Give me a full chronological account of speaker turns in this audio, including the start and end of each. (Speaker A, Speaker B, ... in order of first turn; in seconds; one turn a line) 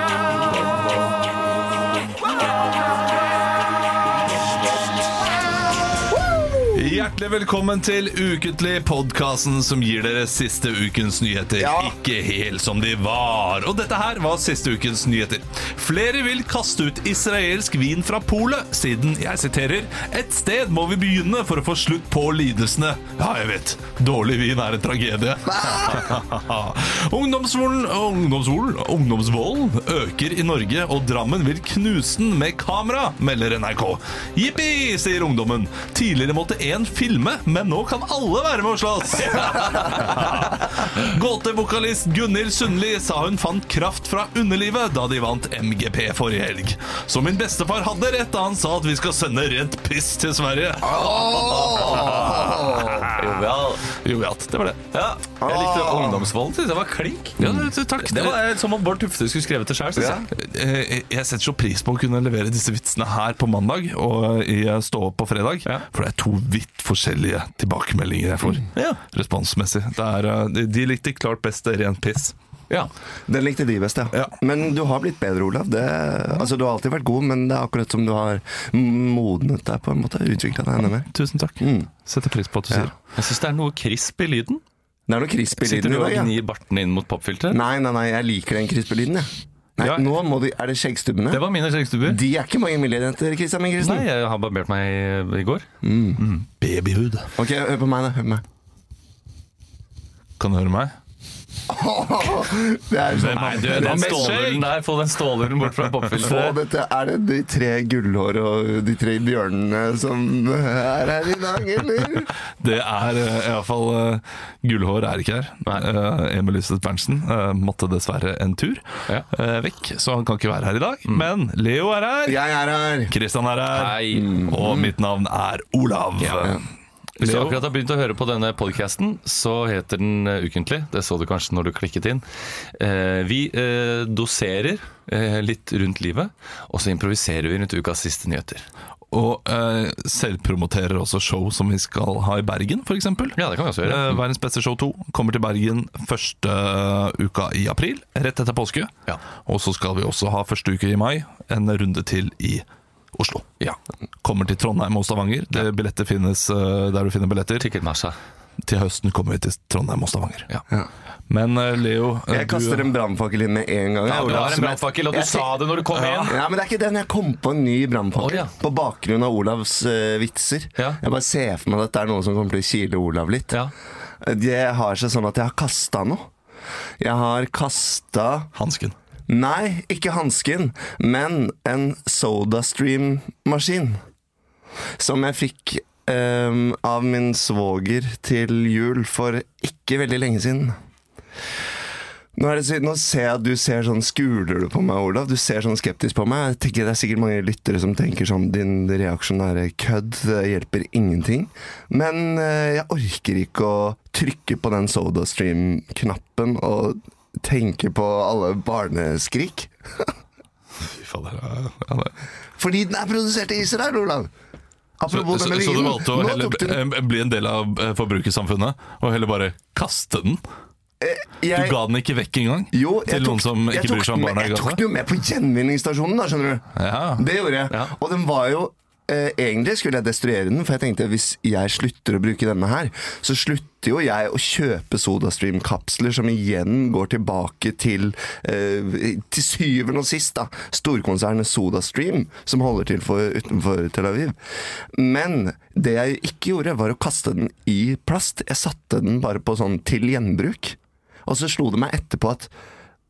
Speaker A: 6.3-6.6
Speaker B: 6.7-54.8
Speaker A: 11.6-11.9
Speaker A: 25.5-26.1
Speaker A: 50.9-53.0
Speaker C: 51.2-53.9
Speaker C: 54.9-57.5
Speaker A: 55.4-56.3
Speaker B: 57.4-58.4
Speaker C: 58.0-60.2
Speaker A: 59.9-60.3
Speaker B: 60.3-72.3
Speaker C: 68.7-69.0
Speaker A: 73.3-81.9
Speaker B: 81.1-82.9
Speaker C: 83.1-84.6
Speaker A: 85.1-86.3
Speaker C: 85.6-87.6
Speaker A: 87.5-91.4
Speaker B: 89.8-90.0
Speaker C: 91.3-92.2
Speaker A: 92.0-94.1
Speaker C: 93.8-96.5
Speaker A: 95.8-96.2
Speaker B: 96.6-97.3
Speaker A: 97.3-98.4
Speaker B: 100.4-100.9
Speaker A: 101.7-104.4
Speaker B: 103.1-104.7
Speaker C: 103.6-106.6
Speaker A: 106.2-112.3
Speaker B: 112.6-122.4
Speaker A: 122.2-123.1
Speaker B: 123.1-126.6
Speaker C: 123.7-124.4
Speaker A: 124.2-124.9
Speaker C: 126.2-126.5
Speaker C: 127.2-138.7
Speaker B: 127.2-127.6
Speaker B: 139.1-148.9
Speaker C: 143.3-144.2
Speaker B: 149.4-157.7
Speaker C: 157.6-158.2
Speaker B: 158.6-160.5
Speaker B: 161.3-162.9
Speaker A: 162.3-165.6
Speaker C: 164.1-166.4
Speaker B: 164.2-164.5
Speaker B: 165.9-166.4
Speaker A: 166.3-173.6
Speaker C: 168.2-168.5
Speaker A: 174.2-176.3
Speaker A: 177.0-178.5
Speaker B: 178.5-178.9
Speaker A: 179.3-184.0
Speaker A: 185.0-190.8
Speaker A: 192.3-210.1
Speaker B: 210.8-212.1
Speaker A: 212.6-214.3
Speaker A: 215.0-216.8
Speaker B: 215.1-220.4
Speaker A: 221.0-221.8
Speaker B: 221.5-224.8
Speaker A: 222.7-226.6
Speaker B: 226.8-227.3
Speaker A: 227.2-244.3
Speaker A: 244.9-252.5